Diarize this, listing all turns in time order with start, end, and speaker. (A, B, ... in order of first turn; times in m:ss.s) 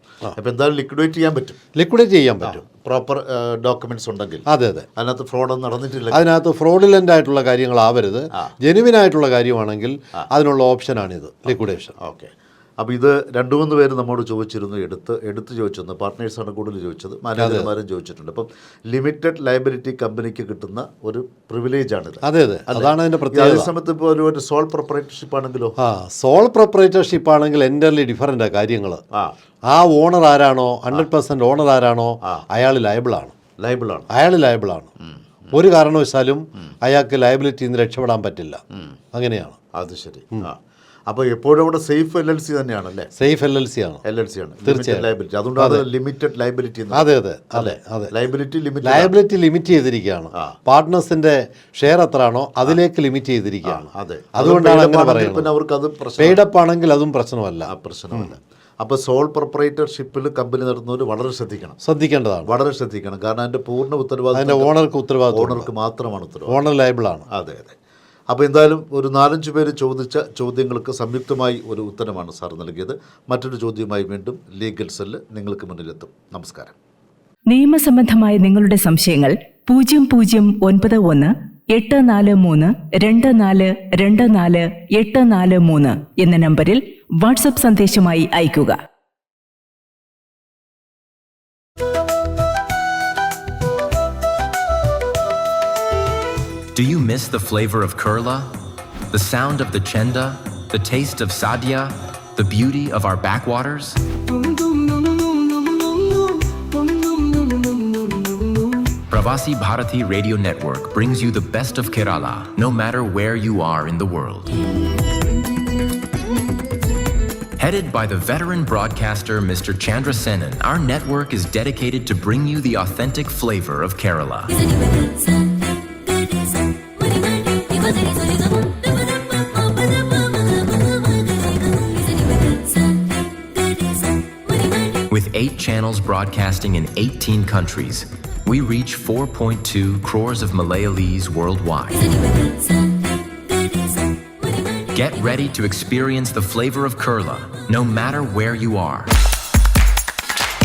0:00.3-0:01.6 A
0:01.8-0:02.6 B
0:02.4-0:06.2 A
0:04.5-0:04.8 B
0:06.1-0:11.9 B
0:12.0-0:25.7 A
0:17.4-0:17.7 B
0:22.2-0:23.7 B
0:25.8-0:29.0 B
0:29.7-0:33.3 B
0:33.6-0:34.1 A
0:34.1-0:34.9 B
0:35.5-0:38.6 B
0:39.1-0:39.6 B
0:39.7-0:43.1 A
0:43.2-0:44.0 B
0:44.0-0:49.1 A
0:44.6-0:45.1 B
0:45.6-0:45.8 B
0:46.9-0:48.1 B
0:48.8-0:55.5 B
0:53.6-0:56.4 A
0:56.2-0:58.3 B
0:57.6-1:01.8 A
1:01.8-1:02.5 B
1:02.4-1:04.7 A
1:04.3-1:05.7 B
1:05.3-1:06.6 A
1:06.5-1:07.2 B
1:07.3-1:07.8 A
1:08.3-1:16.7 A
1:17.5-1:28.8 C
1:36.7-1:38.5 D
1:39.1-1:44.0 D
1:49.1-1:54.5 D
1:57.6-2:04.6 D
2:15.1-2:22.2 D
2:24.9-2:29.1 D